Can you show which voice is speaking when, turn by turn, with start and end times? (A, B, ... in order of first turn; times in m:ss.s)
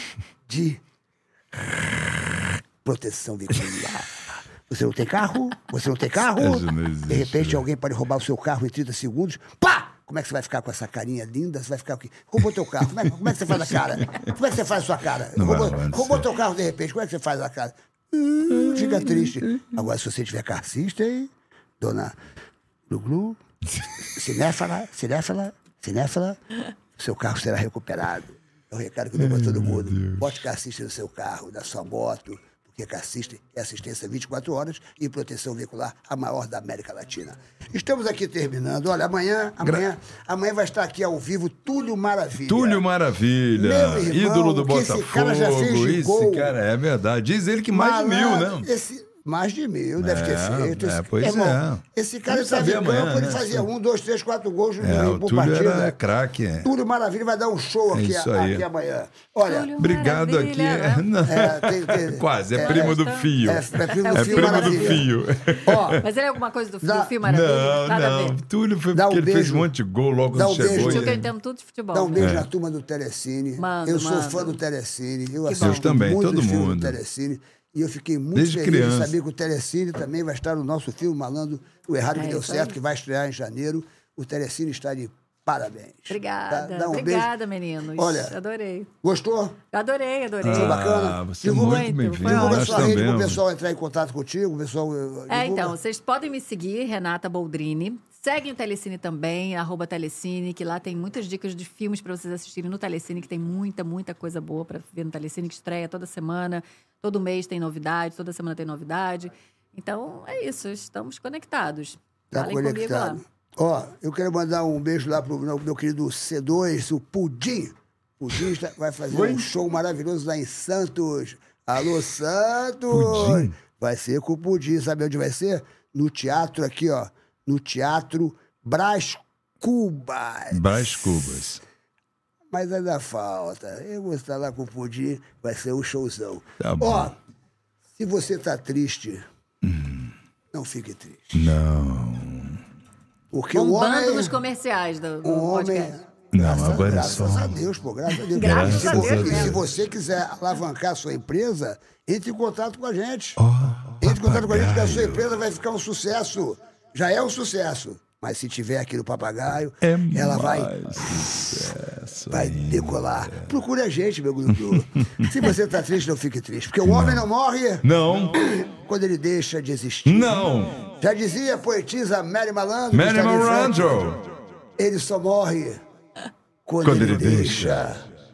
0:00.5-0:00.8 A
0:01.5-0:01.8 A
0:02.8-0:22.1 A
0:06.4-0:07.6 B
0:13.7-0:14.3 B
0:15.4-0:16.2 B
0:18.5-0:19.7 B
0:22.9-0:23.4 A
0:24.1-0:26.4 A
0:27.0-0:42.8 A
0:29.2-0:30.4 B
0:42.5-0:48.7 B
0:43.5-0:46.5 A
0:47.7-0:56.0 A
0:50.0-0:53.6 B
0:54.8-0:56.7 B
0:56.6-0:59.9 A
0:57.9-0:58.6 B
0:59.4-1:01.0 C
0:59.8-1:06.0 B
1:01.2-1:05.1 A
1:02.6-1:05.1 C
1:05.6-1:06.0 A
1:06.0-1:08.4 C
1:06.8-1:07.1 A
1:07.2-1:11.3 B
1:08.9-1:09.7 A
1:10.3-1:11.2 A
1:10.7-1:12.3 C
1:11.9-1:27.3 A
1:12.2-1:12.5 B
1:13.6-1:14.6 C
1:15.4-1:15.8 C
1:15.6-1:17.0 B
1:18.3-1:19.1 B
1:22.1-1:22.8 C
1:26.1-1:28.9 C
1:27.9-1:28.4 A
1:29.0-1:29.6 A
1:29.7-1:30.8 C
1:30.4-1:33.4 B
1:30.5-1:35.7 A
1:31.4-1:33.0 C
1:35.3-1:53.2 C
1:52.3-2:11.0 A
1:59.1-1:59.4 B
2:02.9-2:03.5 B
2:10.5-2:11.6 B
2:12.5-2:17.2 A
2:16.6-2:17.1 B
2:18.0-2:19.2 A
2:19.6-2:20.1 B
2:20.5-2:21.6 A
2:21.3-2:22.6 B
2:23.3-2:24.4 A
2:23.5-2:25.9 C
2:25.2-2:33.4 A
2:26.3-2:27.7 B
2:28.3-2:29.6 C
2:28.4-2:29.6 B
2:33.4-2:35.3 B
2:34.0-2:41.7 A
2:39.8-2:43.5 B
2:42.3-2:50.4 A
2:44.5-2:45.3 B
2:46.8-2:47.2 B
2:47.8-2:48.4 B
2:50.0-2:50.9 B
2:51.0-2:54.0 A
2:52.9-2:54.3 B
2:54.8-2:55.8 A
2:56.6-2:58.0 A
2:56.8-2:57.9 B